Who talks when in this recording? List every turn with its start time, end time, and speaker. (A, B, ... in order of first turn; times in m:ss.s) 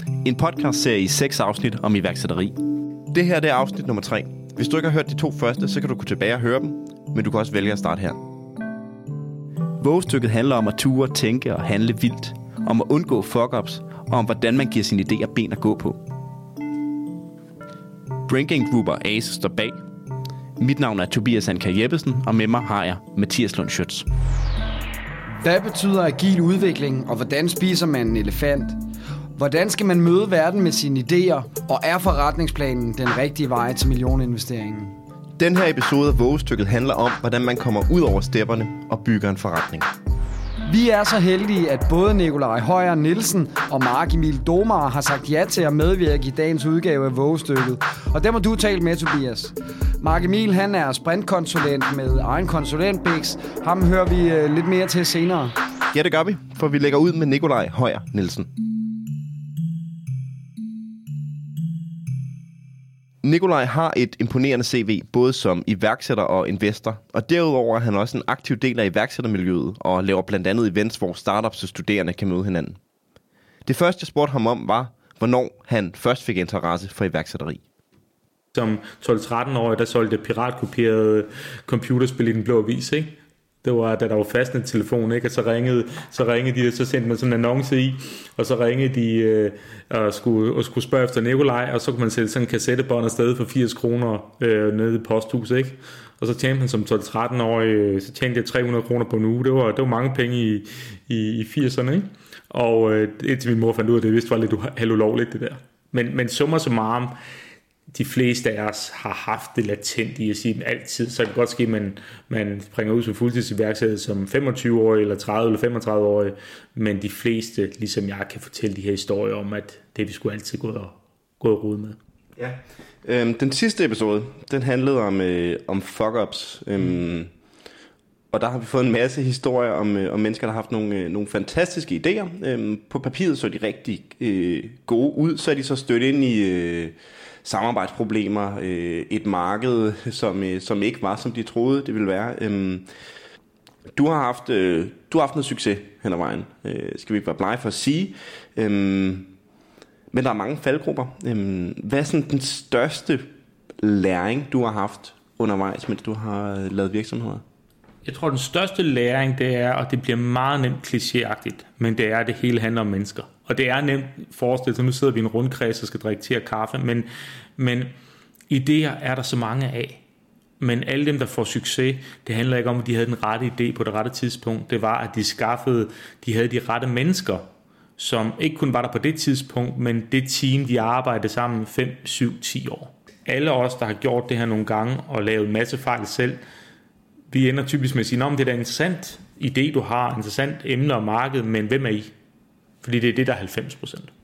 0:00.2-0:08.2 A
0:09.8-0:16.0 A
0:18.2-0:19.8 A
0:20.6-0:24.1 A
0:25.4-0:28.8 B
0:29.4-0:34.9 B
0:35.4-0:39.9 A
0:40.6-0:55.5 B
0:55.9-0:58.5 A
1:03.2-1:12.8 A
1:13.6-1:17.6 A
1:18.5-1:23.1 C
1:23.6-1:47.1 C
1:47.9-2:02.0 C
2:02.4-2:07.3 A
2:08.3-2:22.9 A
2:23.9-2:29.3 A
2:30.1-2:33.3 A
2:33.8-2:37.4 A
2:38.0-2:47.9 C
2:48.5-2:50.0 C
2:50.6-2:57.4 C
2:58.0-3:06.4 C
3:07.3-3:12.1 C
3:12.8-3:14.1 C